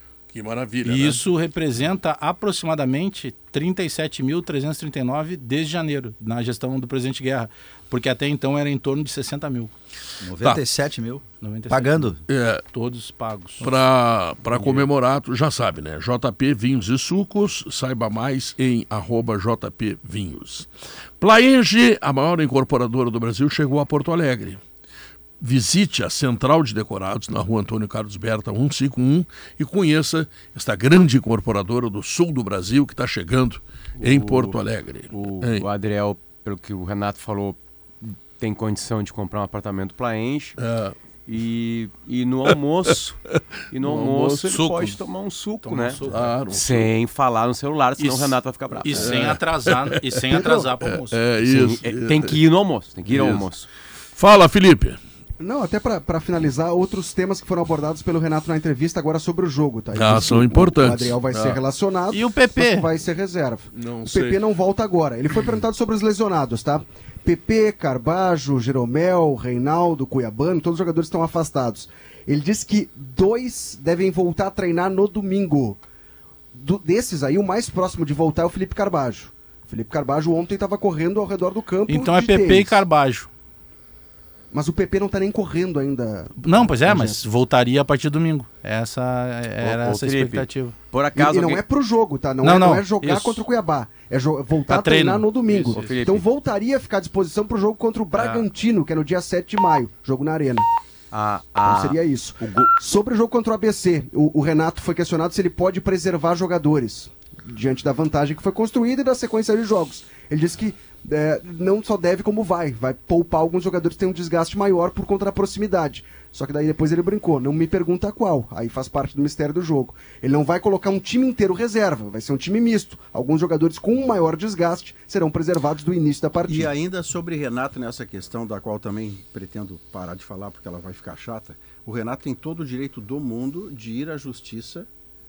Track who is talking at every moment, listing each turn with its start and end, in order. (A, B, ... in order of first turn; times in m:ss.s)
0:00.3-0:01.2 A
0:00.8-0:09.7 B
0:10.2-0:12.2 C
0:11.4-0:12.1 B
0:12.3-0:12.6 A
0:12.7-0:13.7 B
0:13.6-0:20.7 A
0:21.2-0:24.6 A
0:25.4-0:35.6 A
0:34.0-0:34.6 D
0:35.1-0:40.6 D
0:40.6-0:41.0 A
0:41.3-0:43.2 D
0:43.3-0:44.5 A
0:43.7-0:49.2 D
0:44.5-0:45.0 B
0:45.6-0:46.3 B
0:46.0-0:46.9 A
0:48.0-0:51.2 B
0:48.9-0:52.4 A
0:51.4-0:53.7 D
0:53.0-0:53.5 A
0:54.2-0:55.0 A
0:55.4-1:15.8 E
0:59.9-1:01.6 A
1:02.1-1:02.9 B
1:03.7-1:04.4 A
1:16.5-1:22.8 E
1:21.9-1:23.3 B
1:24.5-1:27.1 E
1:26.4-1:30.7 B
1:29.6-1:31.6 D
1:31.1-1:40.7 E
1:32.4-1:33.4 B
1:34.7-1:35.3 B
1:35.5-1:36.2 D
1:38.1-1:38.4 D
1:41.1-1:42.0 D
1:41.6-2:06.7 E
2:06.5-2:14.9 F